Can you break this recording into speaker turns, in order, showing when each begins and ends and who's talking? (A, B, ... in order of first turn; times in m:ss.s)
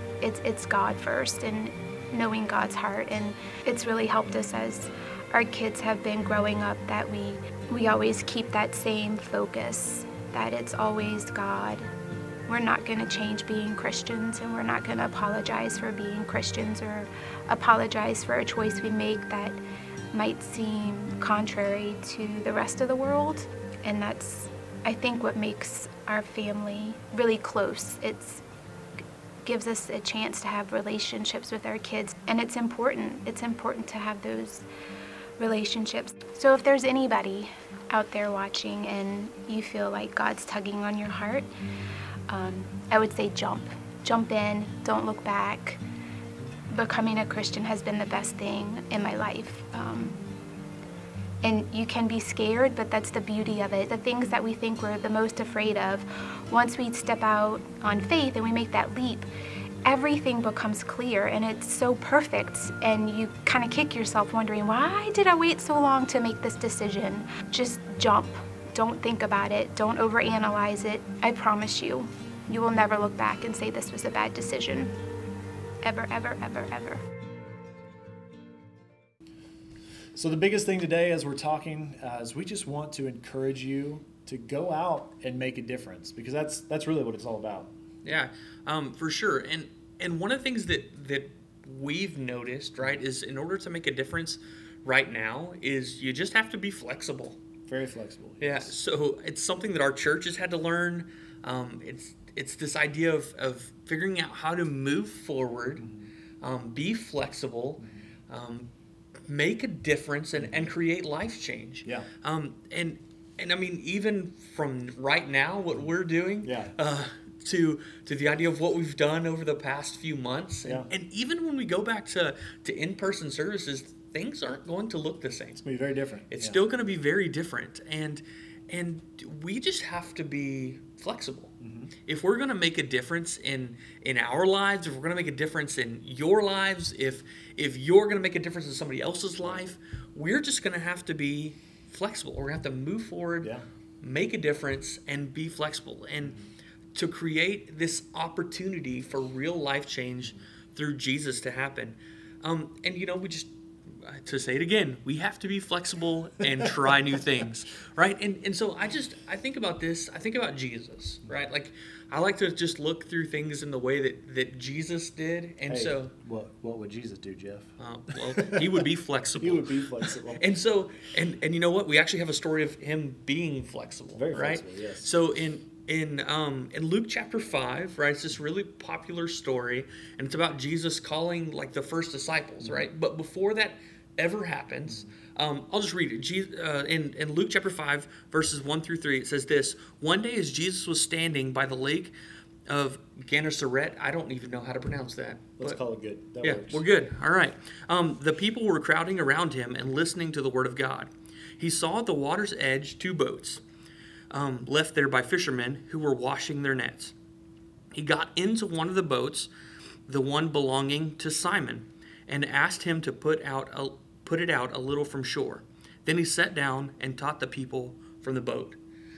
0:00.2-0:11.9 A
0:12.5-0:19.6 A
0:20.1-0:28.4 A
0:29.4-0:34.6 A
0:35.4-0:41.5 A
0:42.3-0:45.8 A
0:46.7-0:50.2 A
0:51.4-0:59.3 A
0:59.8-1:14.9 A
1:15.8-1:17.0 A
1:20.1-1:27.7 B
1:28.0-1:37.4 C
1:37.7-1:38.7 B
1:38.4-1:45.8 C
1:45.8-1:46.1 B
1:46.4-1:48.7 C
1:47.8-1:48.0 B
1:49.3-2:05.6 C
1:50.4-1:50.7 B
1:56.4-1:56.7 B
2:05.6-2:06.6 B
2:06.3-2:11.5 C
2:11.6-2:11.9 B
2:12.0-2:26.3 C
2:26.9-2:46.1 C
2:45.7-2:48.8 B
2:47.8-3:12.1 C
2:49.4-2:50.4 B
2:54.1-2:55.1 B
3:12.7-3:15.8 C
3:15.6-3:16.8 B
3:16.4-3:23.6 C
3:24.3-3:27.1 C
3:27.9-3:29.5 C
3:30.1-3:38.8 C